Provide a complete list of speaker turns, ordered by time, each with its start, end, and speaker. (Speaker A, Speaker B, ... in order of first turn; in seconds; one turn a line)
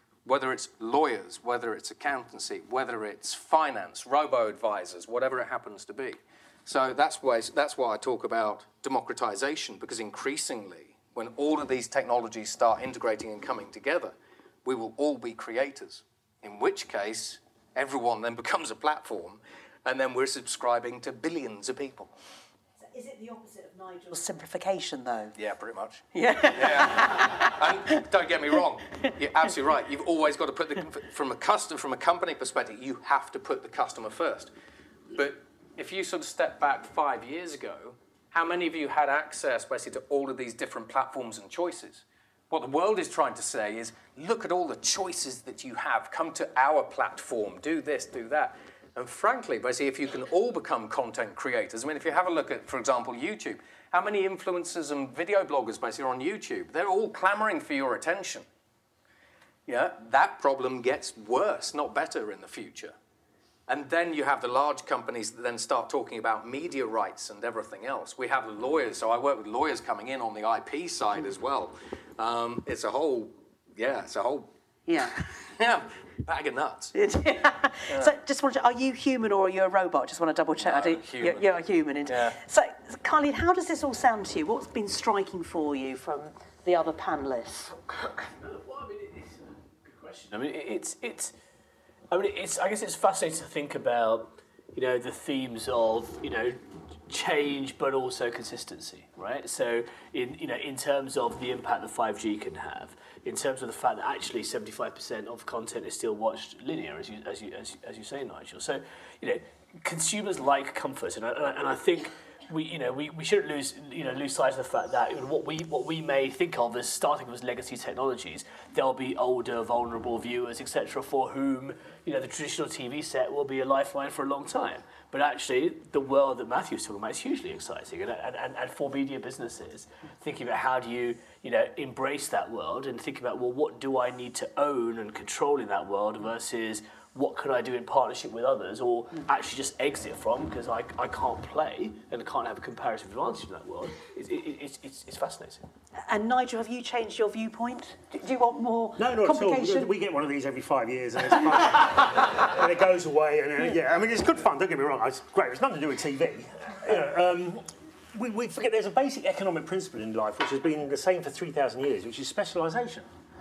Speaker A: 0.2-14.1
Speaker A: 14.7-22.1
Speaker B: 22.9-25.4
Speaker A: 25.4-34.5
Speaker B: 26.1-28.0
Speaker A: 35.1-58.5
Speaker A: 59.7-63.0
Speaker A: 63.7-74.5
Speaker B: 74.9-75.2
Speaker A: 75.1-76.9
Speaker B: 76.9-87.8
Speaker A: 77.9-78.2
Speaker A: 80.6-81.5
Speaker A: 82.1-82.4
Speaker C: 88.4-91.3
Speaker C: 92.1-145.7
Speaker B: 146.0-149.9
Speaker D: 149.0-163.1